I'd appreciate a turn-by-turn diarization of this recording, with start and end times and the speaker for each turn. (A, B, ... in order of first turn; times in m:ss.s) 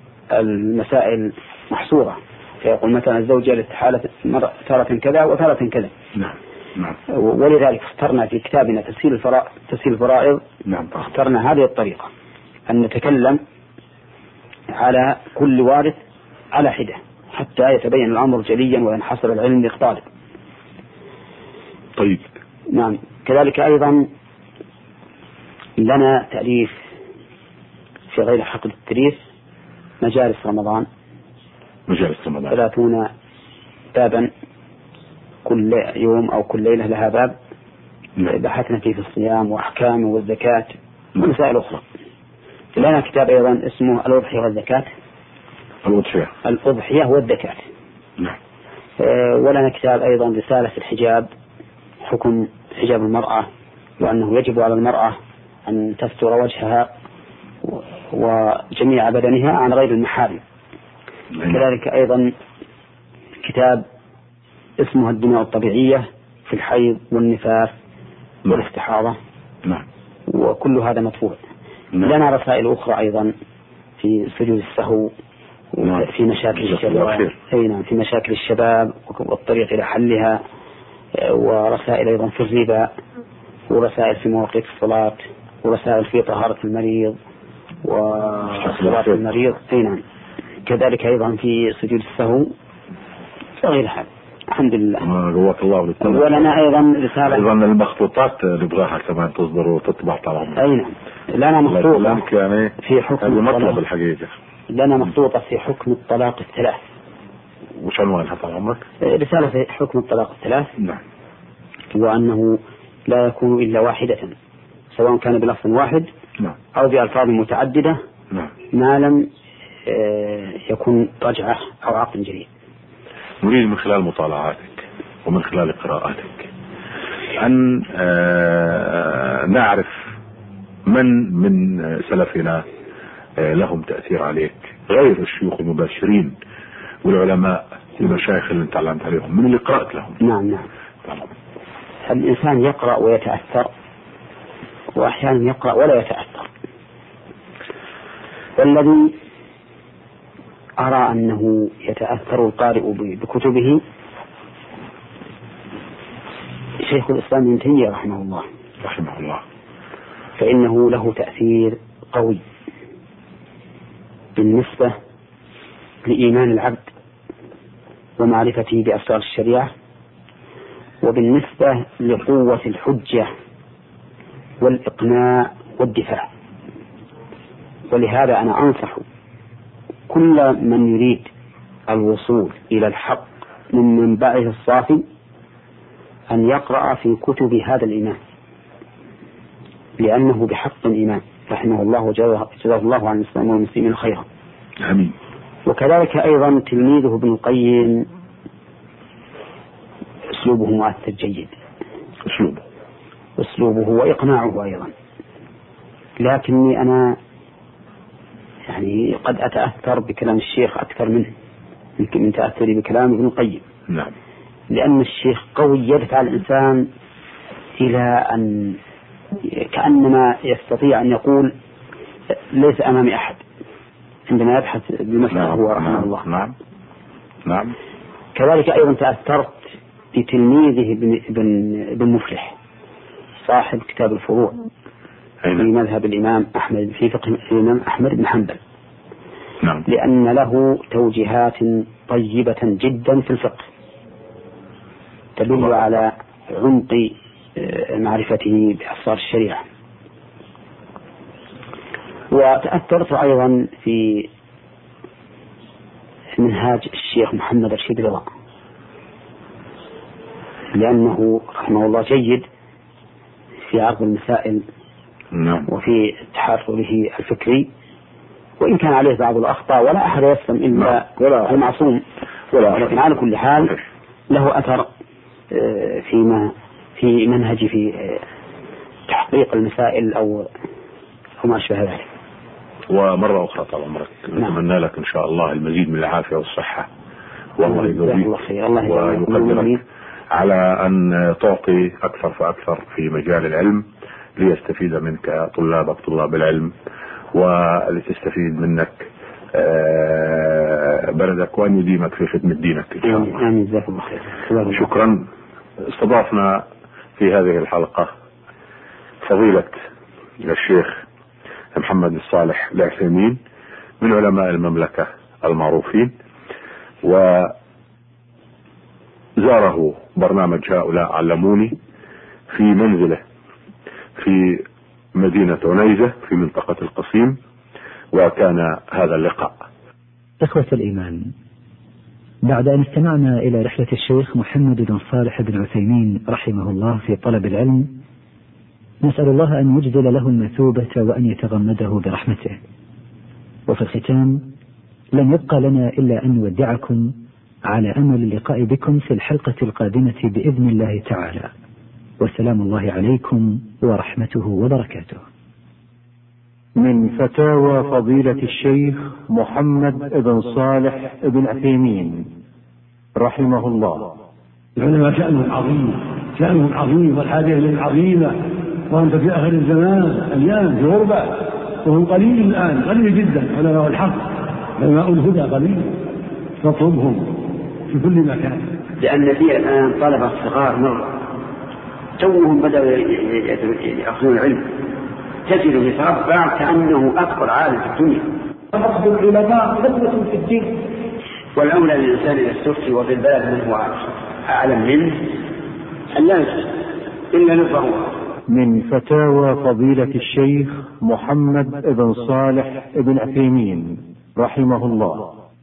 0:00.3-0:05.9 A
0:06.1-0:07.0 B
0:07.1-0:10.4 A
0:10.6-0:11.0 B
0:11.0-0:12.1 A
0:12.7-0:13.4 A
0:14.7-0:16.0 A
0:16.5-0:20.0 A
0:22.0-0:22.2 B
0:22.7-0:24.1 A
0:25.8-0:26.8 A
0:28.1-0:29.2 A
0:30.0-0:30.8 A
0:31.9-0:32.6 B
0:32.5-0:33.1 A
0:33.9-0:34.3 A
0:35.4-0:37.4 A
0:38.3-0:41.8 A
0:42.7-0:44.9 A
0:45.8-0:46.3 B
0:46.4-0:47.6 A
0:49.0-0:51.3 A
0:52.0-0:53.5 A
0:54.0-0:56.9 A
0:57.6-1:00.4 A
1:01.3-1:01.6 B
1:01.4-1:02.3 A
1:03.4-1:03.8 A
1:04.8-1:07.7 A
1:08.5-1:09.2 A
1:10.3-1:11.4 A
1:12.0-1:13.3 A
1:14.0-1:15.1 A
1:15.7-1:20.4 A
1:15.8-1:17.4 B
1:21.2-1:22.9 A
1:23.7-1:27.2 A
1:27.8-1:30.0 A
1:28.5-1:29.2 B
1:30.6-1:32.5 A
1:33.6-1:35.0 A
1:35.0-1:36.6 B
1:36.0-1:37.5 A
1:37.2-1:40.6 B
1:40.6-1:42.2 A
1:41.6-1:44.3 B
1:42.8-1:43.8 A
1:44.7-1:46.8 A
1:47.8-1:48.8 B
1:49.0-1:50.7 A
1:51.9-1:54.3 A
1:54.9-1:56.1 A
1:56.7-1:58.0 A
1:58.7-1:59.3 A
1:59.9-2:02.5 A
2:03.4-2:06.5 B
2:07.4-2:10.1 B
2:10.9-2:12.6 B
2:13.4-2:16.3 B
2:17.0-2:20.2 B
2:20.2-2:20.7 A
2:21.0-2:21.3 B
2:22.0-2:23.7 A
2:24.9-2:26.5 A
2:28.6-2:29.1 A
2:30.8-2:33.8 A
2:36.8-2:38.4 A
2:38.8-2:39.4 B
2:40.4-2:42.4 A
2:44.4-2:44.9 A
2:46.0-2:46.9 A
2:48.2-2:49.7 A
2:51.0-2:53.3 A
2:54.6-2:56.3 A
2:57.9-2:59.0 A
3:00.1-3:01.3 A
3:01.9-3:05.0 A
3:06.3-3:08.2 A
3:10.0-3:14.2 A
3:14.8-3:15.1 B
3:15.6-3:18.0 A
3:20.3-3:21.5 A
3:22.2-3:22.6 B
3:23.4-3:24.9 A
3:26.2-3:27.2 A
3:28.7-3:31.3 A
3:32.0-3:33.6 A
3:33.9-3:34.1 B
3:34.7-3:36.9 A
3:37.8-3:38.8 A
3:39.5-3:41.5 A
3:42.5-3:43.4 A
3:44.3-3:46.2 A
3:45.3-3:46.5 B
3:47.4-3:47.8 B
3:48.3-3:52.6 A
3:53.4-3:54.6 A
3:55.6-3:58.6 A
3:59.8-4:03.6 A
4:05.4-4:09.6 A
4:05.5-4:05.8 B
4:12.3-4:14.3 A
4:16.4-4:18.2 A
4:20.7-4:22.4 A
4:23.7-4:24.6 A
4:25.3-4:25.7 B
4:25.7-4:27.7 A
4:28.6-4:32.0 A
4:30.7-4:31.6 B
4:32.5-4:33.8 B
4:32.6-4:33.8 A
4:34.3-4:34.9 A
4:35.5-4:38.2 A
4:39.1-4:40.5 A
4:41.4-4:42.1 A
4:42.9-4:46.9 B
4:47.6-4:48.3 B
4:47.6-4:49.8 A
4:48.8-4:49.8 B
4:50.3-4:56.7 B
4:57.3-5:03.4 B
5:03.0-5:04.9 A
5:04.6-5:05.2 B
5:05.8-5:06.6 B
5:07.2-5:08.1 B
5:09.2-5:09.8 B
5:10.4-5:11.0 B
5:11.7-5:13.4 B
5:14.0-5:16.1 B
5:17.0-5:17.6 B
5:19.4-5:21.8 B
5:22.5-5:23.2 B
5:24.2-5:27.4 B
5:28.1-5:29.6 B
5:30.4-5:31.3 C
5:32.4-5:37.9 C
5:39.0-5:42.6 C
5:43.7-5:44.4 C
5:45.1-5:47.1 C
5:47.7-5:51.5 C
5:52.2-5:55.2 C
5:56.8-6:02.3 D
6:03.2-6:04.2 D
6:04.8-6:16.0 E
6:16.6-6:18.7 E
6:19.0-6:21.2 A
6:22.2-6:24.7 A
6:25.4-6:28.3 A
6:28.7-6:30.8 E
6:31.6-6:35.3 A
6:36.1-6:38.1 A
6:38.5-6:45.3 D